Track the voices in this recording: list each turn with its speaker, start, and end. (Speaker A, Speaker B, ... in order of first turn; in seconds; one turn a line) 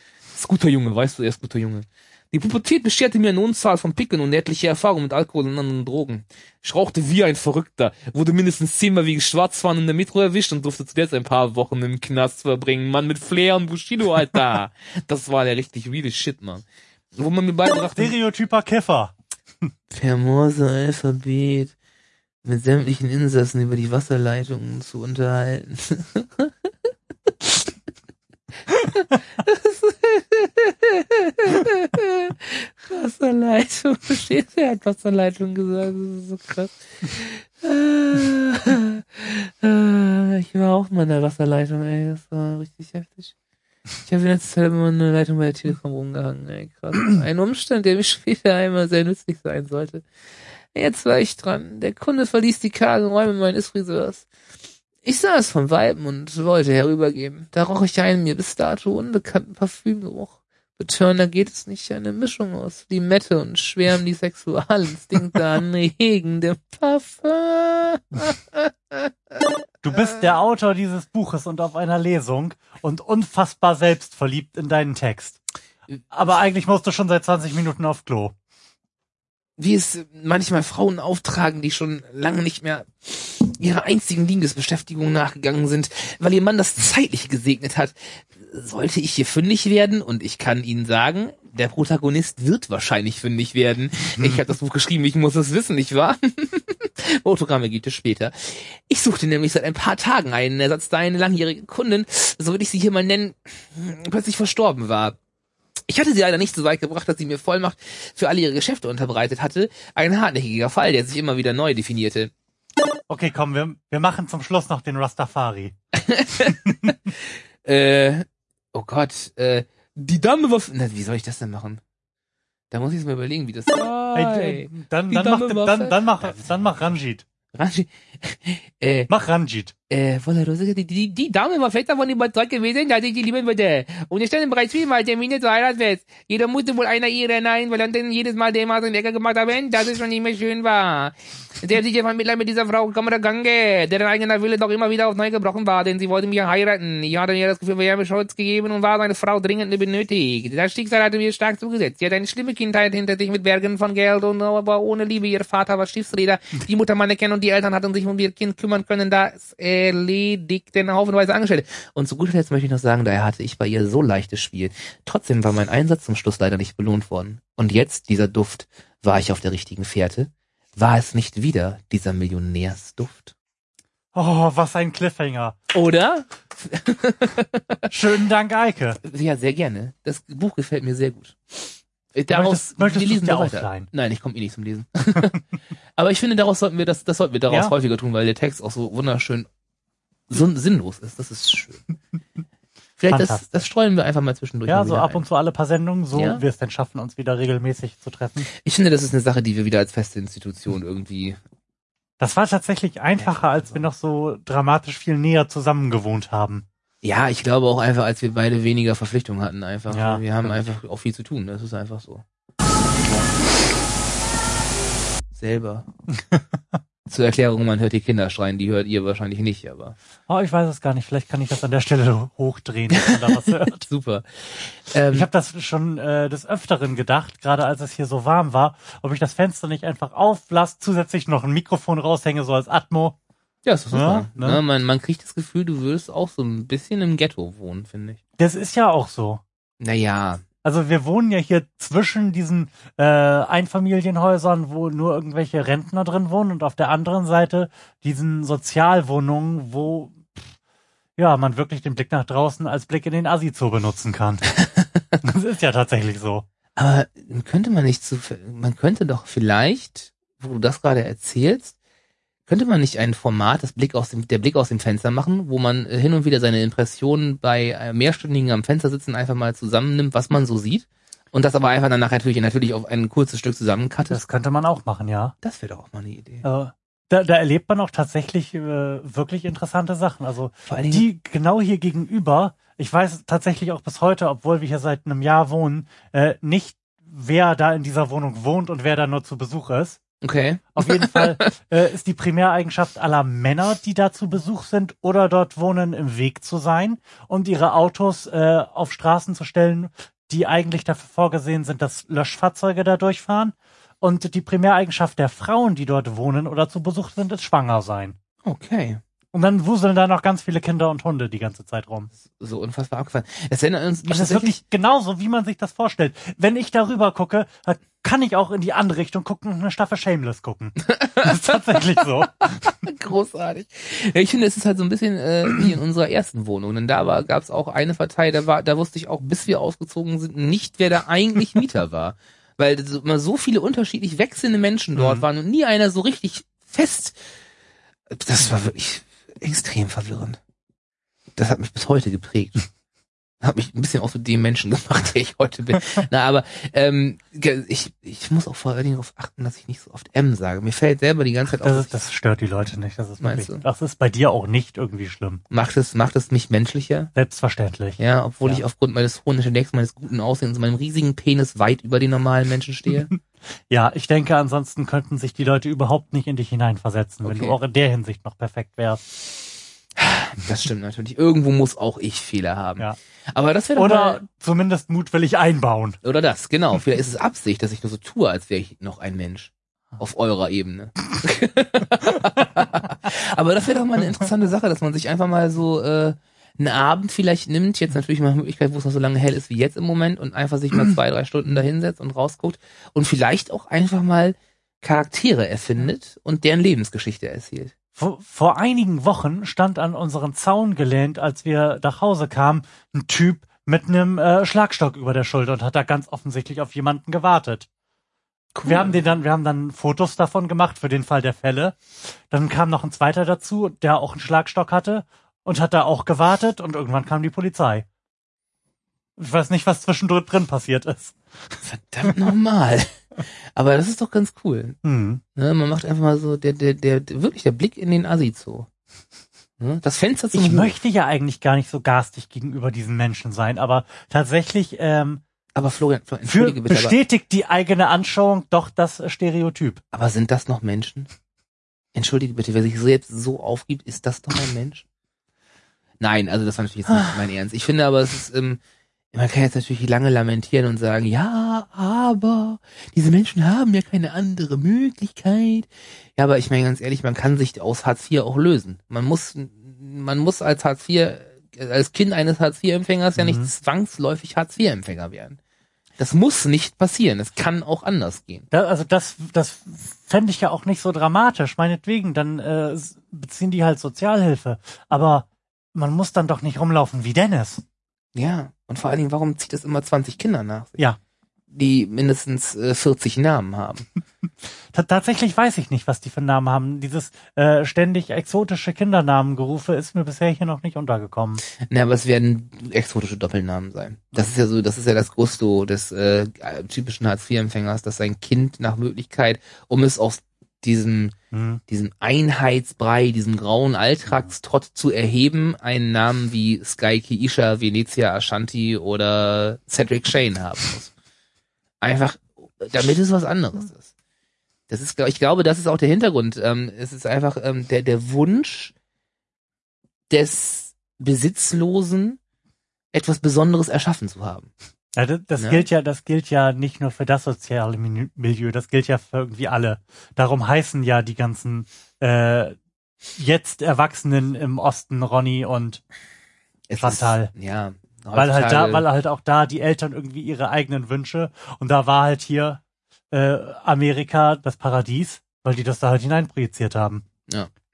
Speaker A: 0.3-16.6
Speaker A: 17.2-18.1
Speaker B: 17.9-19.1
Speaker A: 19.9-21.7
Speaker A: 22.4-26.5
Speaker A: 28.8-43.3
Speaker A: 44.0-50.0
Speaker A: 50.7-54.2
Speaker A: 55.0-69.1
Speaker B: 69.8-75.4
Speaker B: 76.1-78.3
Speaker A: 79.6-105.2
Speaker B: 94.2-94.4
Speaker A: 105.9-112.3
Speaker B: 113.1-115.7
Speaker A: 115.9-117.1
Speaker A: 117.6-121.8
Speaker A: 122.7-126.3
Speaker B: 124.1-127.2
Speaker A: 127.5-129.1
Speaker B: 129.1-129.7
Speaker A: 129.9-173.3
Speaker B: 174.1-175.6
Speaker A: 175.7-177.9
Speaker B: 177.9-179.0
Speaker A: 179.0-185.4
Speaker B: 182.3-183.9
Speaker A: 186.0-189.5
Speaker A: 190.3-191.8
Speaker A: 193.0-195.2
Speaker B: 193.1-193.4
Speaker B: 194.7-198.5
Speaker A: 196.1-196.4
Speaker A: 198.5-201.4
Speaker B: 202.2-206.6
Speaker A: 203.2-203.8
Speaker A: 207.0-212.2
Speaker B: 209.9-210.5
Speaker A: 215.3-215.8
Speaker B: 216.2-216.8
Speaker A: 217.1-219.9
Speaker B: 220.3-223.9
Speaker A: 223.7-225.3
Speaker B: 225.1-233.2
Speaker A: 233.6-238.2
Speaker B: 233.9-234.6
Speaker B: 238.4-239.4
Speaker A: 239.8-240.4
Speaker B: 240.6-250.4
Speaker B: 251.2-254.5
Speaker B: 255.2-256.4
Speaker A: 256.8-261.7
Speaker A: 262.5-274.2
Speaker B: 274.1-275.3
Speaker A: 275.4-276.4
Speaker B: 276.4-290.0
Speaker A: 280.7-281.0
Speaker A: 290.2-291.5
Speaker B: 290.8-308.1
Speaker A: 308.4-309.0
Speaker B: 309.3-312.1
Speaker A: 312.3-314.6
Speaker B: 314.1-322.3
Speaker A: 320.9-337.2
Speaker B: 334.9-335.2
Speaker A: 338.1-340.4
Speaker A: 341.4-342.7
Speaker A: 343.4-351.9
Speaker B: 351.6-355.4
Speaker A: 353.2-353.6
Speaker A: 355.5-357.1
Speaker B: 357.1-358.6
Speaker A: 358.0-363.1
Speaker B: 363.7-369.1
Speaker A: 367.2-367.6
Speaker A: 370.0-374.2
Speaker B: 373.8-376.0
Speaker A: 376.0-397.7
Speaker B: 398.0-407.7
Speaker A: 408.5-408.9
Speaker B: 408.6-417.8
Speaker B: 419.2-421.6
Speaker A: 421.6-423.0
Speaker A: 423.6-424.8
Speaker B: 424.8-425.2
Speaker A: 425.4-428.7
Speaker A: 429.6-430.8
Speaker B: 430.3-435.2
Speaker A: 435.6-437.0
Speaker B: 436.2-439.8
Speaker A: 439.9-441.1
Speaker A: 441.9-444.8
Speaker A: 446.0-448.6
Speaker A: 449.1-465.4
Speaker B: 463.1-463.5
Speaker A: 466.0-468.5
Speaker B: 468.5-477.6
Speaker A: 478.1-480.8
Speaker A: 481.5-483.9
Speaker B: 484.7-491.4
Speaker A: 491.7-501.1
Speaker B: 501.3-501.6
Speaker A: 501.7-510.9
Speaker A: 511.8-513.9
Speaker A: 514.7-518.7
Speaker A: 520.1-522.2
Speaker A: 522.9-524.5
Speaker B: 525.0-532.5
Speaker A: 525.4-525.6
Speaker B: 533.2-535.8
Speaker A: 536.7-538.8
Speaker B: 536.8-537.3
Speaker B: 538.1-547.0